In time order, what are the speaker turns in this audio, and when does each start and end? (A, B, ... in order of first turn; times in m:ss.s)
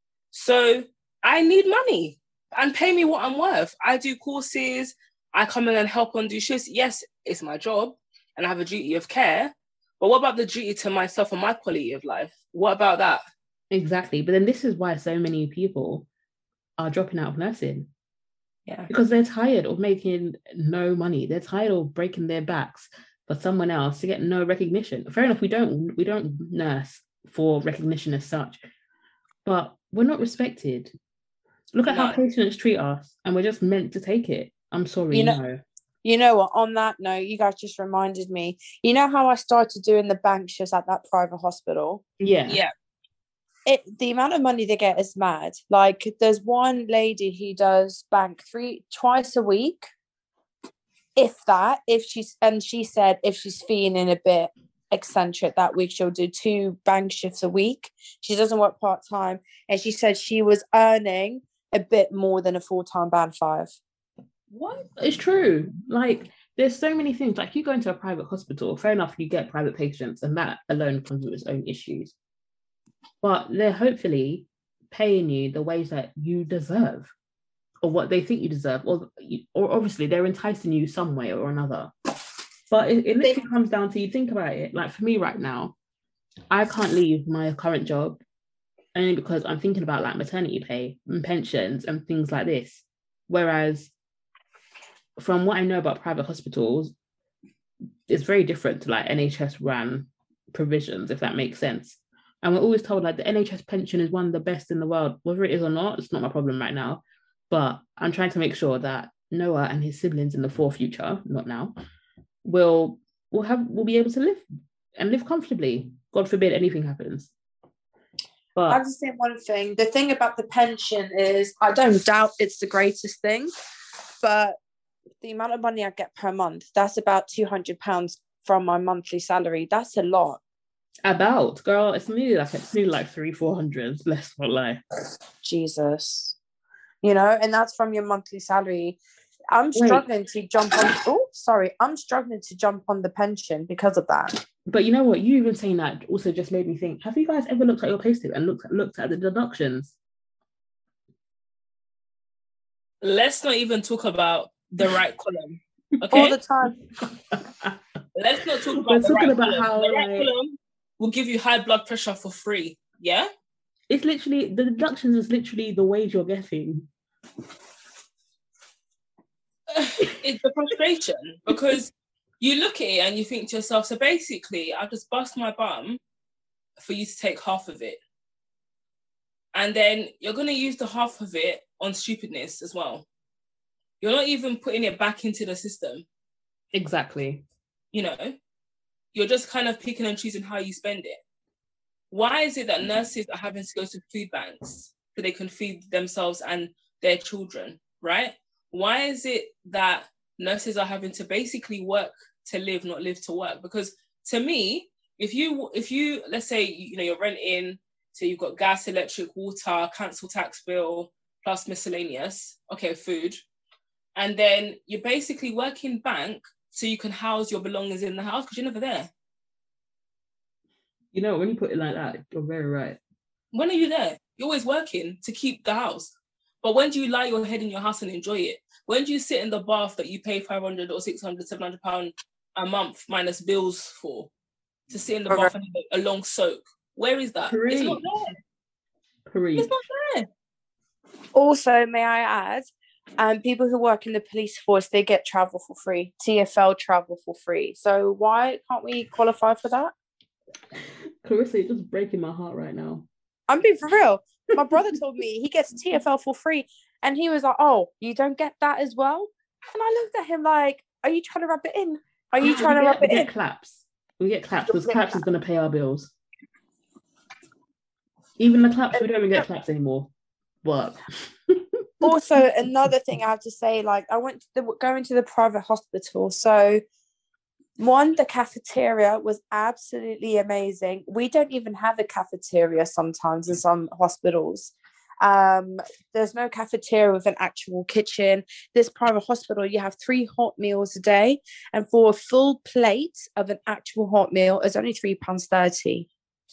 0:00.3-0:13.2 A
0:13.7-0:16.0 B
0:16.8-0:17.9 B
0:18.9-0:28.6 B
0:29.4-0:30.9 B
0:31.7-0:35.6 B
0:31.8-0:32.2 A
0:35.1-0:35.4 C
0:36.0-0:42.0 C
0:42.2-0:42.6 B
0:43.7-0:49.9 C
0:51.2-1:03.8 C
1:04.5-1:04.8 A
1:04.8-1:12.1 B
1:13.2-1:17.1 B
1:17.8-1:21.9 B
1:22.7-1:25.7 B
1:26.5-1:28.2 B
1:28.9-1:33.9 B
1:35.2-1:36.9 B
1:38.1-1:51.7 B
1:52.4-1:54.4 B
1:55.0-1:57.3 B
1:58.5-1:58.8 B
1:58.7-2:03.5 C
2:04.2-2:04.6 C
2:05.2-2:10.4 C
2:11.0-2:14.8 B
2:15.4-2:16.4 C
2:17.0-2:19.0 C
2:19.5-2:24.4 C
2:19.7-2:20.0 B
2:24.7-2:30.0 B
2:33.0-2:36.4 A
2:36.1-2:36.8 C
2:37.0-2:37.8 B
2:38.1-2:43.3 A
2:38.8-2:40.3 B
2:43.9-2:46.9 B
2:49.7-2:56.0 A
2:56.8-2:58.0 A
2:59.5-3:03.0 A
3:04.0-3:06.0 A
3:06.7-3:07.4 B
3:07.9-3:08.4 A
3:09.1-3:11.2 A
3:12.1-3:33.4 A
3:34.2-3:39.1 A
3:41.1-3:43.0 B
3:43.5-3:54.3 A
3:54.9-3:58.3 A
3:57.5-3:58.0 B
3:59.3-3:59.7 B
3:59.6-4:00.3 A
4:01.3-4:09.9 C
4:11.2-4:13.1 B
4:13.5-4:23.3 C
4:22.4-4:26.1 B
4:24.7-4:25.2 C
4:28.4-4:30.1 B
4:30.6-4:32.1 B
4:32.0-4:36.8 C
4:37.8-4:56.1 C